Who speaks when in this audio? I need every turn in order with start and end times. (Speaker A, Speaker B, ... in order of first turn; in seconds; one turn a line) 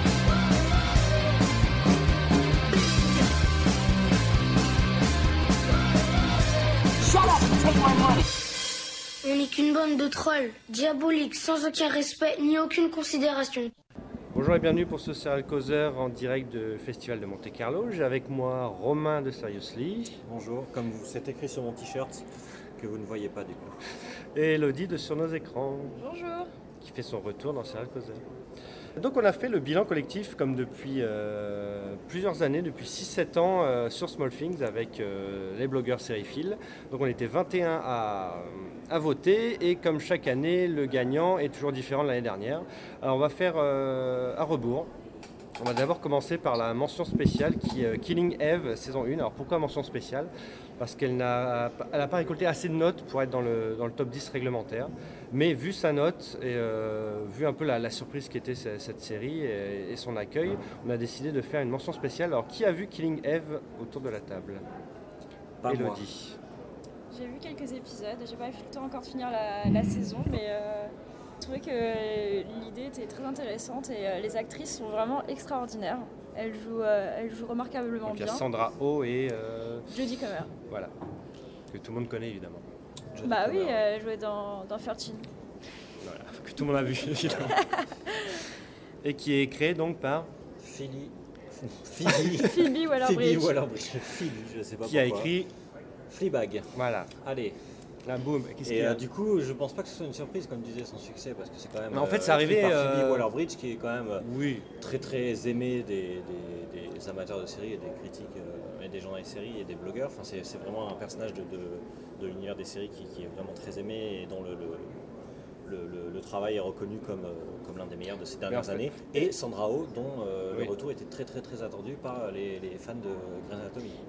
Speaker A: 7.0-8.2
Speaker A: 9.2-13.7
Speaker B: 14.3-20.2
Speaker C: 20.3-22.2
Speaker C: 22.8-23.8
Speaker B: 24.3-26.0
Speaker D: 26.0-26.5
Speaker B: 26.8-28.2
Speaker B: 29.0-44.9
Speaker B: 45.6-64.6
Speaker C: 65.6-66.0
Speaker B: 65.7-66.4
Speaker D: 67.1-78.4
Speaker B: 78.0-79.9
Speaker D: 79.9-80.5
Speaker B: 81.7-82.6
Speaker C: 83.1-83.8
Speaker D: 83.2-85.3
Speaker B: 86.0-87.6
Speaker D: 87.8-88.3
Speaker B: 89.0-90.3
Speaker C: 90.6-95.4
Speaker D: 92.1-93.6
Speaker B: 94.9-95.5
Speaker C: 96.1-97.6
Speaker B: 96.8-97.1
Speaker B: 98.1-99.0
Speaker C: 98.6-115.0
Speaker B: 101.9-103.3
Speaker B: 104.2-104.7
Speaker C: 115.7-124.0
Speaker B: 118.5-119.2